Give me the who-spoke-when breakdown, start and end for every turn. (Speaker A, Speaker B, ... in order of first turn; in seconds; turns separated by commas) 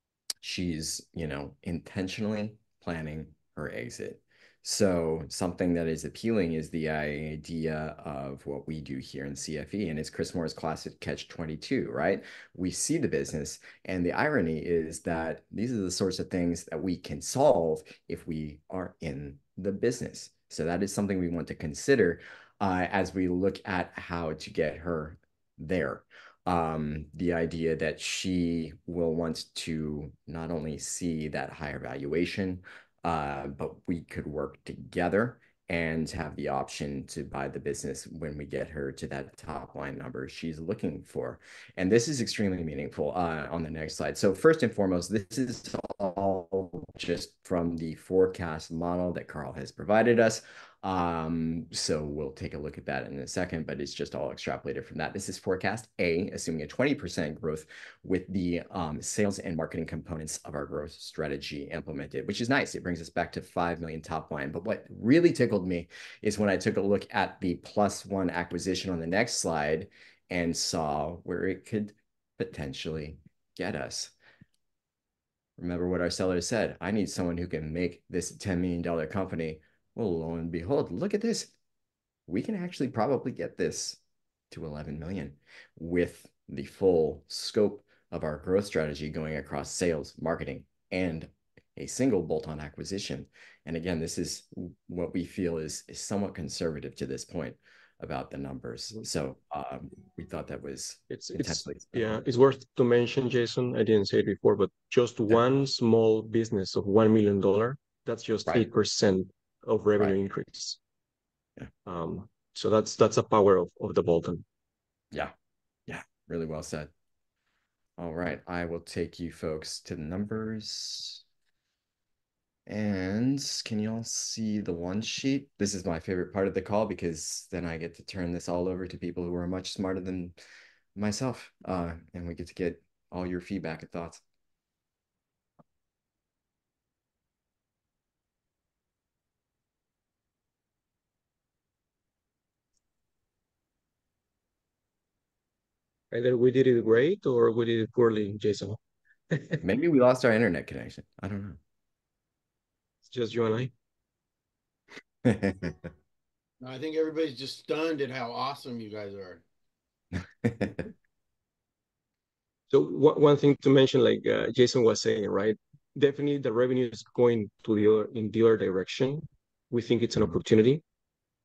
Speaker A: 0.4-74.1, Speaker A: 75.6-81.5, Speaker A: 82.3-84.0, Speaker A: 84.5-102.2, Speaker B: 101.1-110.8, Speaker B: 111.9-114.5, Speaker A: 115.9-116.9, Speaker A: 118.0-121.2, Speaker A: 122.7-130.4, Speaker A: 131.0-134.2, Speaker B: 146.1-148.8, Speaker B: 149.3-149.6, Speaker A: 149.6-151.6, Speaker B: 153.1-153.7, Speaker A: 155.2-155.8, Speaker C: 156.6-159.4, Speaker A: 160.4-160.9, Speaker B: 162.7-170.8